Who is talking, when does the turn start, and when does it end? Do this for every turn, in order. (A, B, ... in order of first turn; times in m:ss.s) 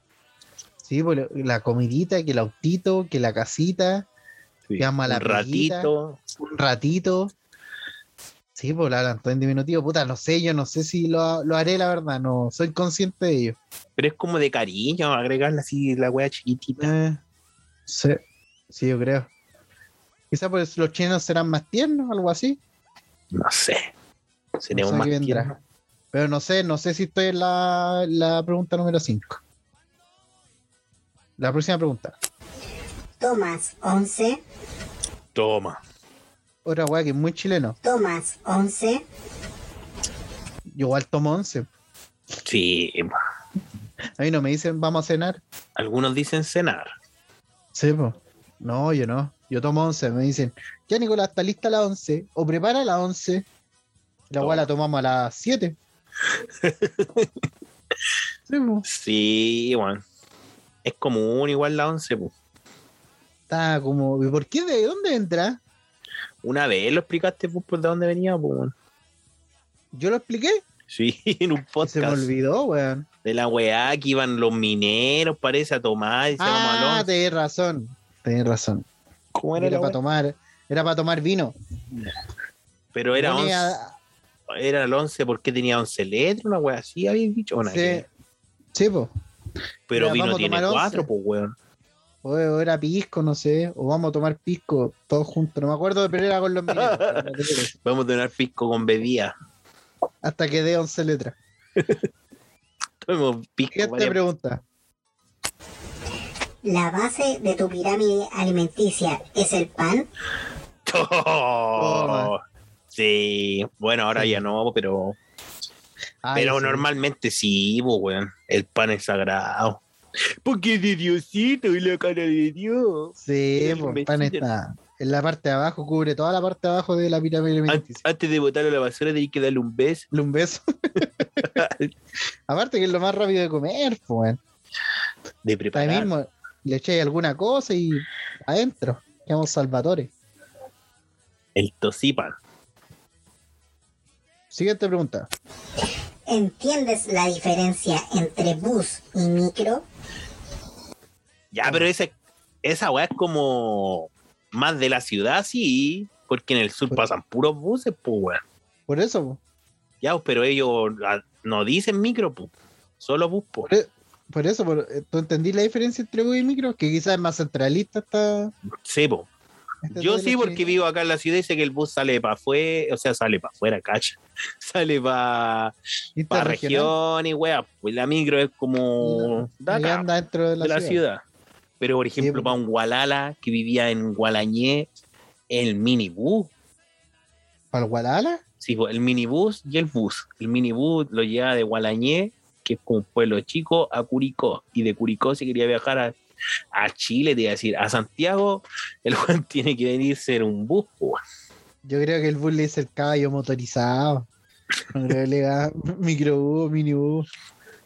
0:00.8-0:04.1 A
0:04.7-0:06.2 B
0:04.8-0:07.3 A
0:08.5-0:13.6 A
0:14.0-0:16.9 B
0:16.8-0:17.2 A
0:17.9-0:18.2 A
0:18.7-0:19.3 A
0:20.3-0:22.6 A
0:23.3-0:23.9 B
0:24.6-0:25.6 B
0:24.7-0:25.5 A
0:26.1-0:29.4 A
0:31.4-0:32.1 A
0:33.2-0:34.4 C
0:35.3-0:35.8 B
0:36.6-0:37.8 A
0:37.8-0:39.0 C
0:40.7-0:41.7 A
0:42.4-0:43.1 B
0:44.2-0:45.4 A
0:45.8-0:46.9 B
0:47.7-0:53.4 A
0:54.3-0:55.8 A
0:54.4-0:54.6 B
0:56.6-0:57.3 B
0:58.5-0:58.8 A
0:58.8-1:00.0 B
1:00.8-1:02.3 B
1:03.5-1:05.6 A
1:06.4-1:08.7 B
1:09.9-1:10.6 A
1:10.9-1:12.3 B
1:11.8-1:13.1 A
1:13.2-1:17.1 B
1:16.4-1:18.8 A
1:19.3-1:20.0 B
1:19.6-1:21.5 A
1:22.9-1:23.8 B
1:23.1-1:23.9 A
1:24.5-1:28.0 B
1:27.6-1:28.1 A
1:28.7-1:29.1 A
1:29.9-1:31.5 B
1:29.9-1:31.1 A
1:32.2-1:37.7 A
1:36.7-1:37.3 B
1:37.8-1:39.3 B
1:40.2-1:41.4 A
1:43.0-1:44.2 B
1:43.7-1:44.6 A
1:46.6-1:50.1 C
1:50.8-1:52.4 B
1:51.8-1:52.3 A
1:52.9-1:55.2 B
1:54.1-1:54.4 A
1:56.2-1:56.8 A
1:56.3-1:59.8 B
2:00.4-2:04.4 B
2:03.2-2:08.0 A
2:07.7-2:10.1 B
2:10.1-2:11.5 A
2:11.5-2:11.9 B
2:12.5-2:14.4 A
2:15.4-2:16.1 B
2:15.7-2:20.1 A
2:21.6-2:22.4 B
2:24.5-2:25.3 A
2:26.3-2:29.8 C
2:31.5-2:32.1 B
2:32.6-2:38.4 B
2:38.9-2:39.4 A
2:40.0-2:43.7 B
2:43.6-2:48.5 A
2:48.8-2:49.3 B
2:49.8-2:50.6 A
2:49.9-2:55.7 B
2:56.2-2:56.9 A
2:56.3-3:00.0 B
2:59.0-3:01.0 A
3:00.6-3:01.2 B
3:01.8-3:04.9 B
3:02.2-3:02.5 A
3:05.5-3:06.5 B
3:07.7-3:08.4 A
3:08.6-3:16.2 B
3:16.7-3:21.2 B
3:21.8-3:24.3 A
3:24.9-3:27.3 A